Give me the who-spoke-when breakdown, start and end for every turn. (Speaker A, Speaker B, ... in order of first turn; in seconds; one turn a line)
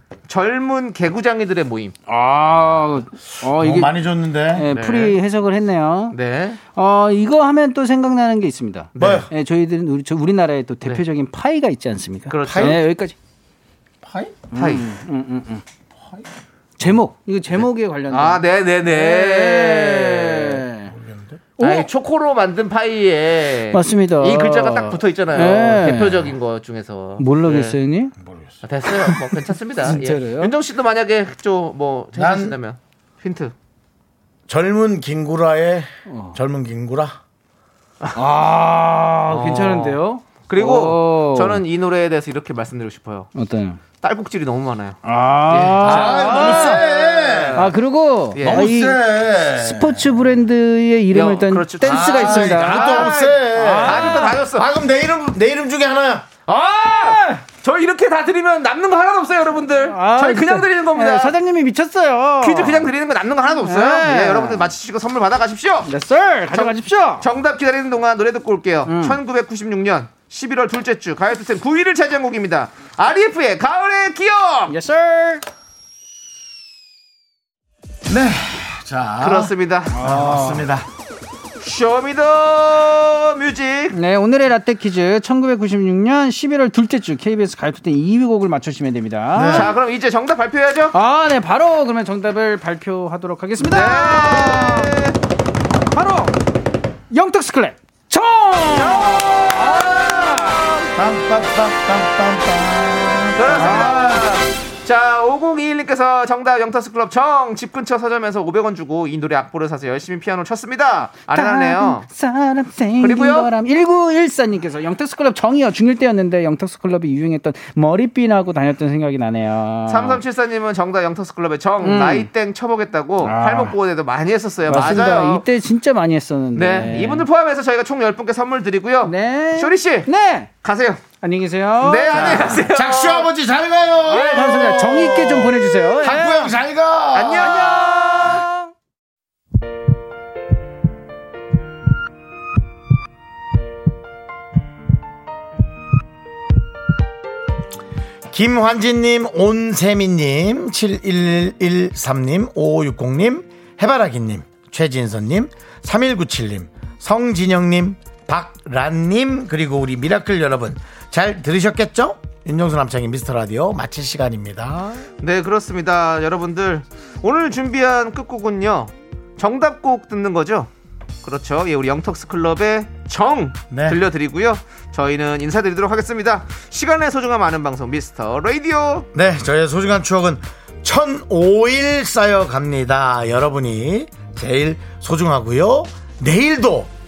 Speaker A: 0.3-1.9
Speaker B: 2.1-4.0
Speaker C: 3.4-4.7
Speaker B: 4.5-6.2
Speaker A: 4.7-5.2
Speaker A: 6.1-6.6
Speaker B: 6.7-13.2
Speaker A: 9.0-9.2
Speaker C: 9.0-9.3
Speaker A: 12.3-12.8
Speaker C: 12.5-12.8
Speaker C: 14.0-14.4
Speaker B: 14.5-15.6
Speaker A: 14.6-14.9
Speaker B: 16.8-20.9
Speaker A: 17.6-20.6
Speaker C: 20.9-21.4
Speaker B: 21.6-21.9
Speaker A: 21.6-27.8
Speaker B: 23.7-26.3
Speaker B: 27.2-28.1
Speaker C: 28.2-28.5
Speaker A: 28.6-33.5
Speaker B: 29.1-30.5
Speaker C: 32.1-32.6
Speaker C: 34.5-37.2
Speaker B: 36.1-36.4
Speaker B: 38.2-41.6
Speaker A: 39.3-43.3
Speaker B: 43.4-43.8
Speaker A: 44.0-47.7
Speaker B: 45.0-46.8
Speaker C: 45.8-47.7
Speaker B: 47.6-54.4
Speaker A: 48.3-48.7
Speaker C: 48.4-50.2
Speaker A: 51.1-54.7
Speaker C: 51.8-56.3
Speaker A: 56.5-61.4
Speaker B: 57.0-57.4
Speaker B: 59.8-62.9
Speaker A: 62.4-65.9
Speaker B: 63.6-64.7
Speaker B: 65.9-67.3
Speaker A: 66.5-74.8
Speaker B: 68.9-69.2
Speaker B: 74.7-75.4
Speaker C: 78.1-80.9
Speaker A: 79.2-80.0
Speaker B: 80.0-80.7
Speaker A: 81.6-84.0
Speaker B: 83.9-89.7
Speaker C: 89.3-89.7
Speaker A: 89.5-91.0
Speaker B: 90.9-94.9
Speaker A: 93.6-95.2
Speaker B: 95.9-96.4
Speaker B: 97.1-100.7
Speaker A: 98.7-100.9
Speaker C: 101.0-104.2
Speaker A: 103.3-112.1
Speaker B: 103.5-104.2
Speaker B: 111.3-120.2
Speaker A: 113.0-113.5
Speaker A: 119.9-125.5
Speaker B: 121.8-122.3
Speaker B: 123.2-123.8
Speaker B: 124.7-127.3
Speaker A: 126.5-130.1
Speaker B: 129.0-130.5
Speaker A: 130.6-131.0
Speaker B: 131.2-132.7
Speaker A: 131.8-133.3
Speaker C: 132.1-137.6
Speaker B: 134.1-136.6
Speaker A: 137.1-138.5
Speaker B: 137.4-138.7
Speaker C: 148.3-165.1
Speaker A: 165.2-170.7
Speaker A: 171.2-179.1
Speaker C: 173.7-174.0
Speaker C: 179.1-186.9